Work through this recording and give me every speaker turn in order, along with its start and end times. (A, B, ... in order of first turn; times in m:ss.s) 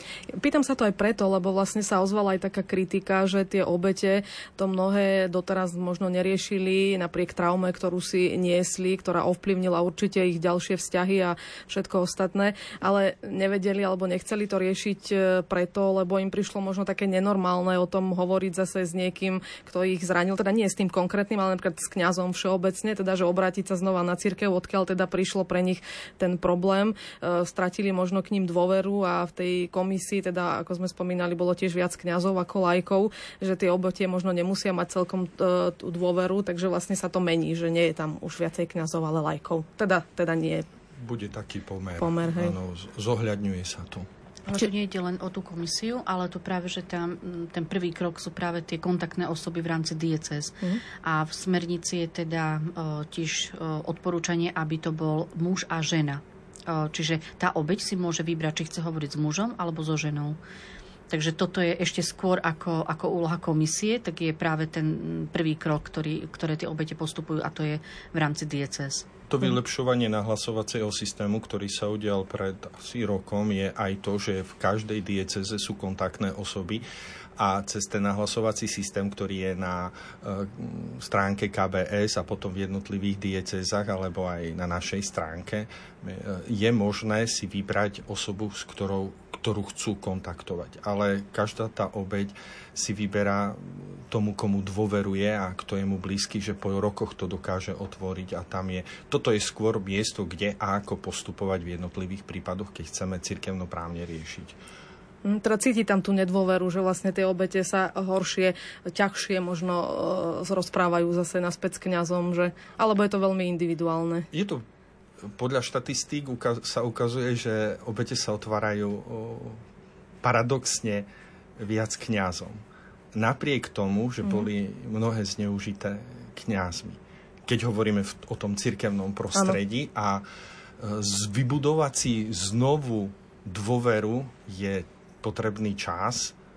0:00.4-0:40.7 A
0:41.0-0:44.1 B
0:42.0-0:42.6 A
0:44.5-1:00.4 C
1:01.1-1:09.1 C
1:09.3-1:16.8 B
1:17.4-1:44.6 B
1:45.2-1:54.3 A
1:54.3-1:54.6 B
1:55.2-1:59.6 B
2:00.2-2:01.1 B
2:01.6-2:02.6 B
2:03.1-2:10.2 B
2:10.8-2:16.4 B